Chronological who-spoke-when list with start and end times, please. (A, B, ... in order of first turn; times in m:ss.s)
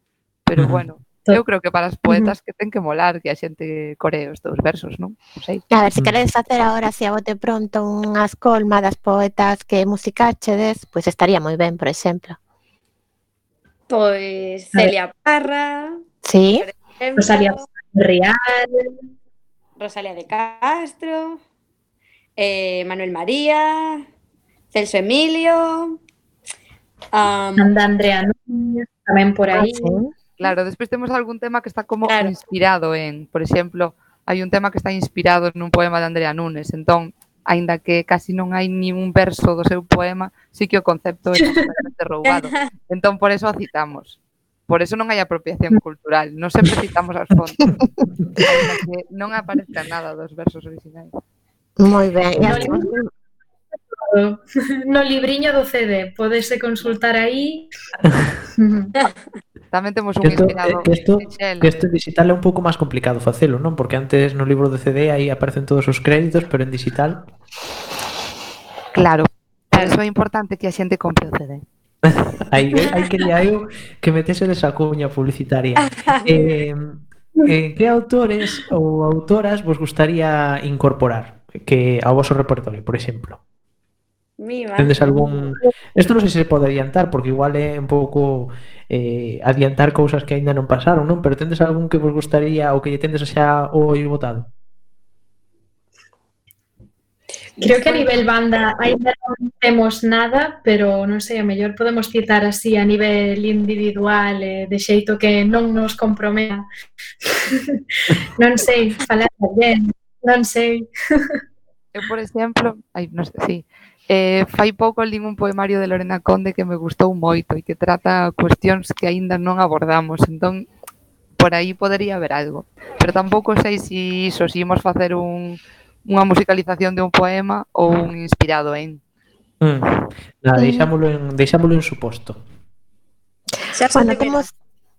0:00.4-0:05.6 A
0:00.6-0:00.8 B
0:05.7-0:12.4 C
0:13.9-0:16.0 D
0:16.2-0:16.6 C
0:16.6-0:17.6 D
0:17.2-0:18.8 E
0:19.8-0:21.4 D
0:22.4-0:24.0 D
0:24.7-0:25.9 D
0:27.1-0:27.7 D
0:27.6-0:30.0 E
0:29.5-0:30.1 C
0:30.4-0:47.8 A
0:32.0-0:32.5 D
0:42.2-0:42.7 D
0:48.4-0:51.1 A
0:51.8-0:53.1 C
0:52.4-0:52.7 B
0:52.4-0:52.9 E
0:53.9-0:57.7 E
0:58.6-0:58.9 E
0:59.7-1:01.7 A
1:00.2-1:07.2 B
1:08.9-1:11.6 A
1:12.0-1:23.4 B
1:12.7-1:13.1 D
1:15.8-1:16.5 D
1:24.4-1:25.5 D
1:24.8-1:34.5 B
1:37.6-1:38.2 D
1:37.6-1:46.6 E
1:47.2-1:51.4 E
1:51.9-2:00.7 A
2:01.4-2:09.0 A
2:09.6-2:12.4 B
2:10.6-2:10.9 C
2:13.7-2:14.5 D
2:13.9-2:14.5 C